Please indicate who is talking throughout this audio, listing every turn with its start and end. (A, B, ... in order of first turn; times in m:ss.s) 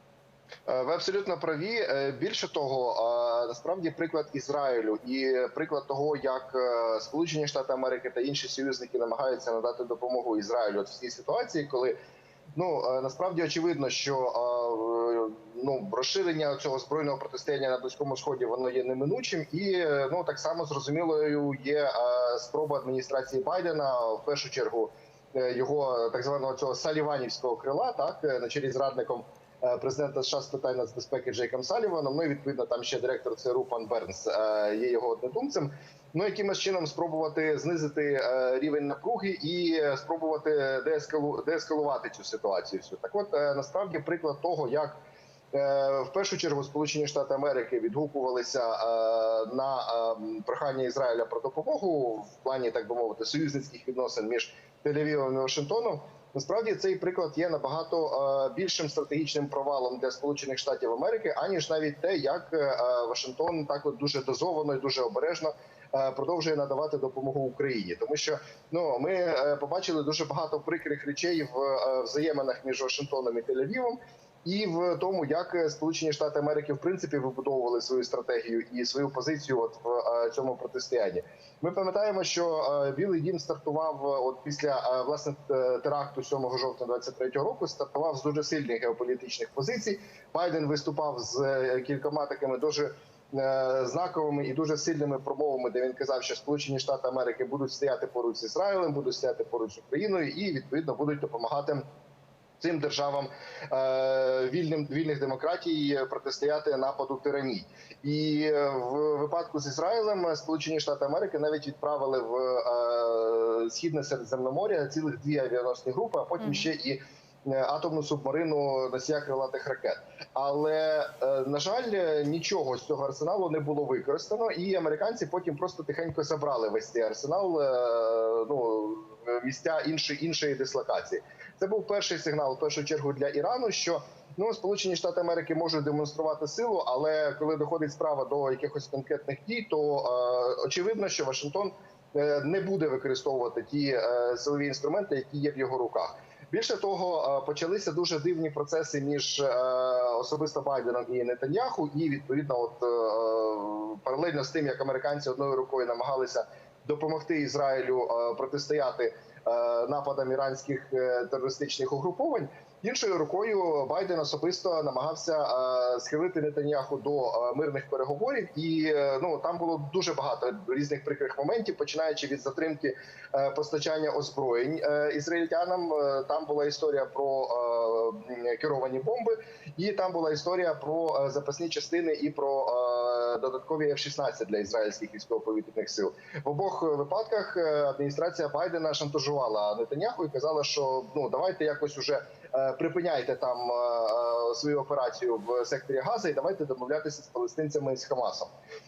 0:00.7-0:12.0 A
0:12.5-0:45.0 A
0:45.5-1:41.8 A
1:42.6-3:18.5 A